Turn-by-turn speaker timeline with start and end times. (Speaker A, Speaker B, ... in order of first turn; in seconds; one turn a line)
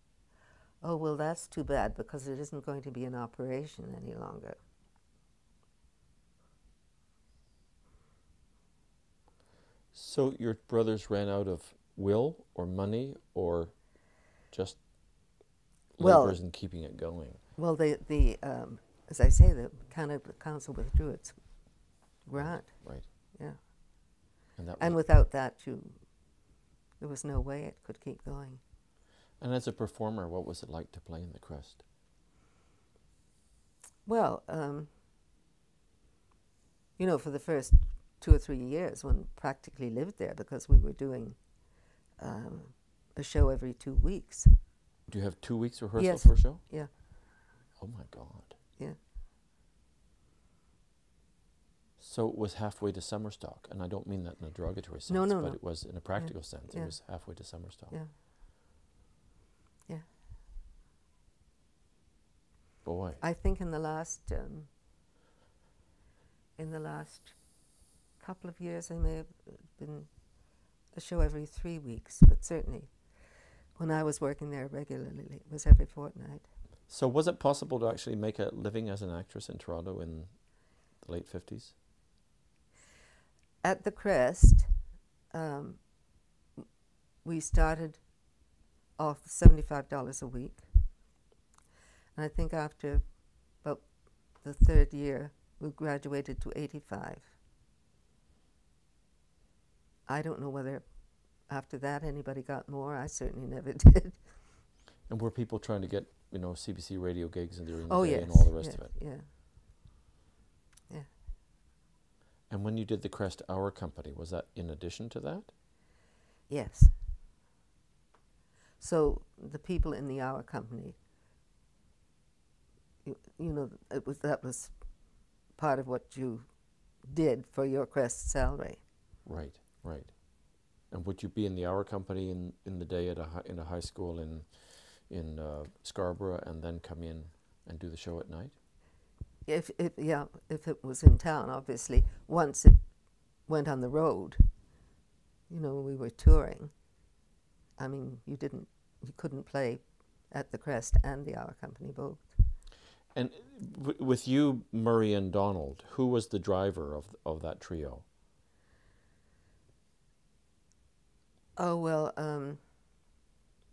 Speaker A: 0.8-4.6
Speaker B: 9.9-15.4
Speaker B: 15.9-17.4
Speaker A: 16.0-16.9
Speaker A: 17.5-24.3
Speaker B: 22.3-23.1
Speaker B: 24.6-25.0
Speaker A: 24.8-28.6
Speaker B: 29.4-31.8
Speaker A: 34.0-34.9
Speaker A: 37.0-44.5
Speaker B: 45.1-47.0
Speaker A: 46.0-47.0
Speaker B: 47.8-48.5
Speaker B: 52.0-57.9
Speaker A: 55.1-58.1
Speaker B: 62.8-63.2
Speaker A: 63.2-64.7
Speaker A: 66.5-76.5
Speaker B: 76.9-81.8
Speaker A: 83.6-84.7
Speaker A: 85.3-86.1
Speaker A: 87.2-88.1
Speaker A: 89.0-90.7
Speaker A: 92.1-97.3
Speaker A: 100.0-104.3
Speaker B: 105.1-108.9
Speaker A: 107.9-109.3
Speaker B: 112.5-115.5
Speaker A: 116.5-117.0
Speaker A: 118.8-121.0
Speaker A: 123.0-128.9
Speaker B: 129.2-138.6
Speaker A: 139.4-144.7
Speaker A: 145.5-146.9
Speaker A: 147.8-152.4
Speaker B: 153.1-158.1
Speaker A: 161.6-162.6